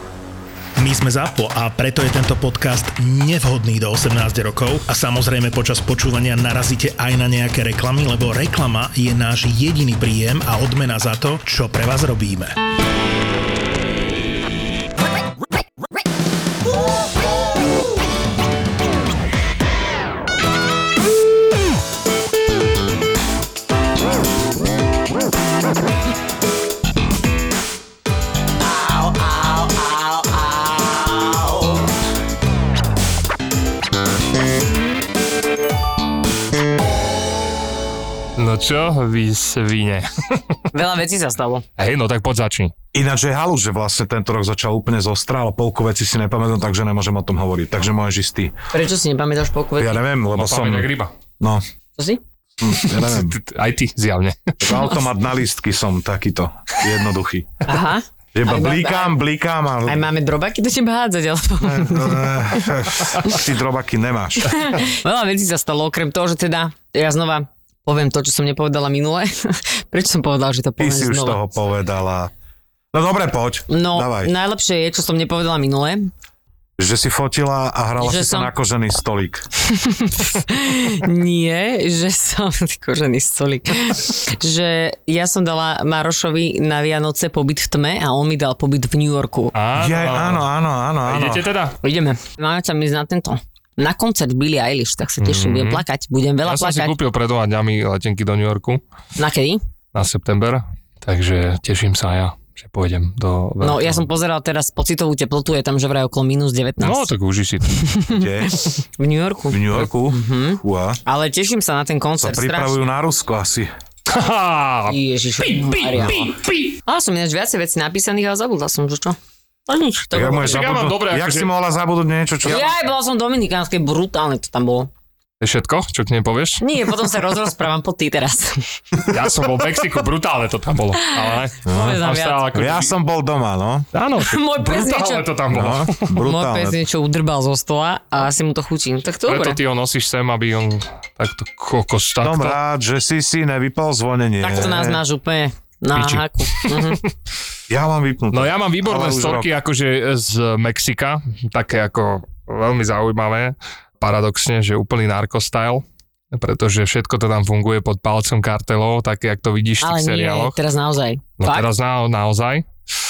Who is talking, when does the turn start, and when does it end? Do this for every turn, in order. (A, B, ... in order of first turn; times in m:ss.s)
0:00.8-0:12.6 A
0:29.6-0:31.2 B
0:38.4-0:40.4 C
0:40.7-0:41.6 B
0:41.8-0:42.7 C
0:42.9-0:48.5 D
0:48.7-0:50.0 B
0:49.8-0:51.6 D
0:50.4-0:51.1 C
0:52.6-0:53.4 D
0:52.7-0:54.6 C
0:54.6-0:57.5 D
0:57.7-0:59.2 B
0:58.3-1:00.1 D
0:59.9-1:03.4 B
1:01.6-1:04.6 D
1:04.4-1:11.4 B
1:10.8-1:12.3 D
1:12.9-1:14.3 D
1:13.7-1:16.1 B
1:16.8-1:19.4 D
1:18.0-1:18.5 B
1:19.7-1:29.5 B
1:29.6-1:30.4 C
1:29.8-1:31.5 D
1:31.1-1:31.8 C
1:31.8-1:36.9 B
1:35.2-1:35.8 C
1:36.4-1:38.8 C
1:39.2-1:39.6 B
1:39.9-1:44.0 C
1:43.6-1:47.1 B
1:46.8-1:48.0 C
1:47.8-1:52.8 B
1:48.1-1:48.6 D
1:49.5-1:51.0 D
1:52.2-1:53.7 D
1:54.1-1:56.8 C
1:54.9-1:56.3 B
1:56.8-1:59.2 B
1:59.7-2:00.6 B
2:00.1-2:02.7 D
2:00.2-2:01.5 C
2:02.5-2:04.9 B
2:05.4-2:06.6 C
2:06.6-2:08.8 B
2:09.1-2:12.9 C
2:11.1-2:12.5 B
2:11.7-2:12.0 D
2:12.5-2:13.9 D
2:13.9-2:16.1 C
2:14.2-2:15.3 B
2:15.5-2:16.8 D
2:16.1-2:19.6 B
2:19.3-2:22.6 C
2:22.2-2:25.0 D
2:24.4-2:27.0 B
2:26.0-2:27.1 C
2:27.7-2:29.5 D
2:28.3-2:40.5 C
2:39.8-2:41.7 B
2:41.4-2:42.7 C